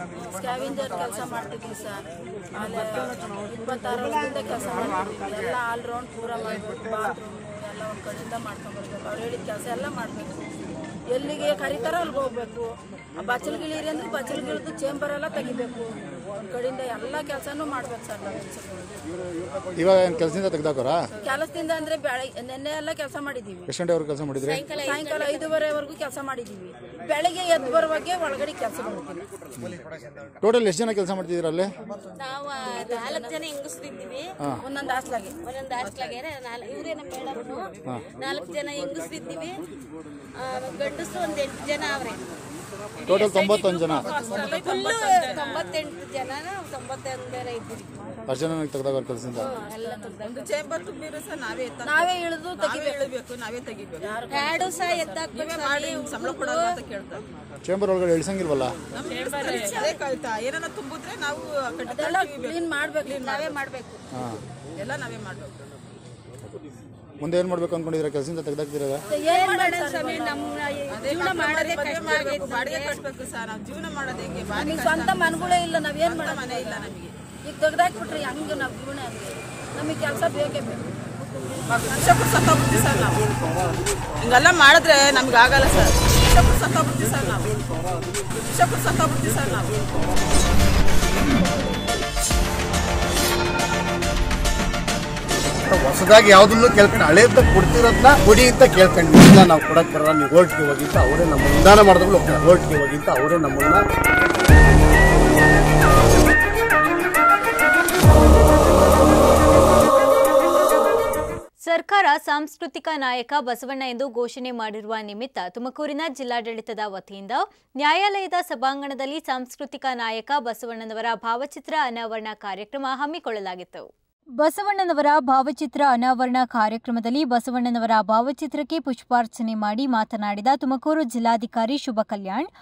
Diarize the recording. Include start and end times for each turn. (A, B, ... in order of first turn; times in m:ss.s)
0:00.3-0:10.3 A
0:11.1-0:19.0 A
0:19.8-0:21.0 B
0:21.2-0:23.7 A
0:23.7-0:24.6 B
0:24.4-0:25.5 C
0:24.8-0:29.2 A
0:30.4-0:31.7 B
0:32.2-0:34.3 C
0:32.9-0:33.3 A
0:34.6-0:35.3 A
0:35.4-0:37.6 C
0:38.2-0:39.6 C
0:40.4-0:42.2 C
0:43.1-0:48.0 C
0:43.1-0:44.0 B
0:44.0-0:45.6 D
0:48.3-0:49.4 B
0:49.5-0:50.2 C
0:49.8-0:50.5 A
0:50.3-0:54.1 D
0:51.9-0:53.0 A
0:54.0-0:54.7 A
0:54.3-0:56.8 C
0:55.3-0:57.2 D
0:57.6-0:58.8 B
0:58.9-1:03.7 D
0:59.1-0:59.9 C
1:01.9-1:03.6 A
1:04.1-1:04.4 B
1:04.8-1:05.5 D
1:07.2-1:09.0 B
1:09.1-1:10.4 A
1:09.2-1:12.9 C
1:10.9-1:17.1 D
1:14.6-1:16.8 A
1:17.5-1:20.9 A
1:21.7-1:23.3 D
1:24.2-1:27.6 D
1:28.5-1:29.9 D
1:35.7-1:43.8 E
1:51.7-2:03.9 F
2:04.4-2:12.5 F